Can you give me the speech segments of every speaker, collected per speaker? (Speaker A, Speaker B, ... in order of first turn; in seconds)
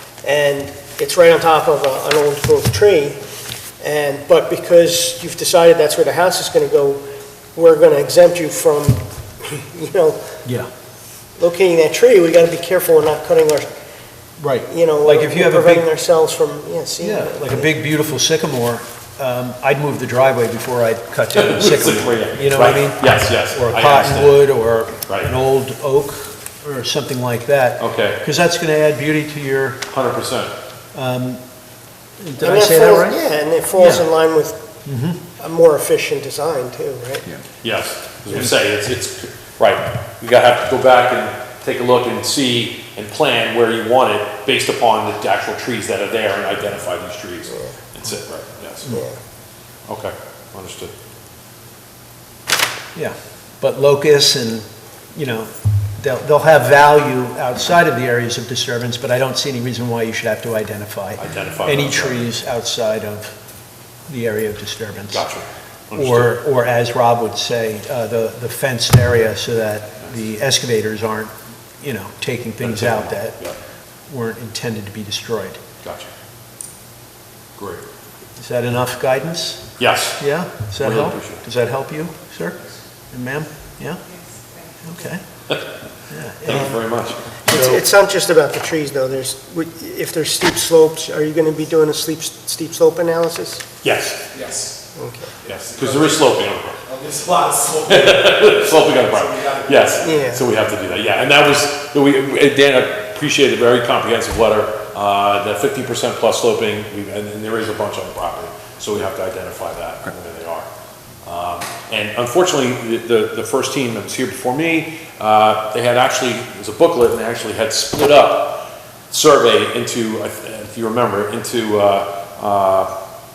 Speaker A: 0.2-3.2, 3.8-7.0, 7.5-10.3, 11.4-13.7, 14.7-17.7, 32.4-34.7, 35.4-37.3, 47.5-47.8, 48.9-49.2, 86.5-86.8, 87.5-93.6, 94.9-95.3, 100.0-100.4
Speaker B: 14.4-15.8, 17.0-29.8, 30.9-31.4, 32.2-33.2, 33.8-34.0, 34.9-35.2, 52.9-63.3, 64.1-65.2, 65.9-73.4, 74.1-75.6, 78.4-82.6, 83.1-84.0, 84.8-85.2, 86.1-86.8, 87.5-87.8
Speaker C: 21.3-24.5, 27.8-28.2, 29.9-30.5, 37.6-49.0, 49.9-50.9, 61.2-62.2, 65.1-66.3, 72.6-73.6, 75.8-76.1, 77.5-77.8, 79.8-80.2, 80.8-81.4, 86.5-87.2, 93.8-94.2, 95.4-96.8, 97.8-110.7, 111.2-122.9
Speaker D: 94.3-94.7, 95.4-96.3, 96.8-100.2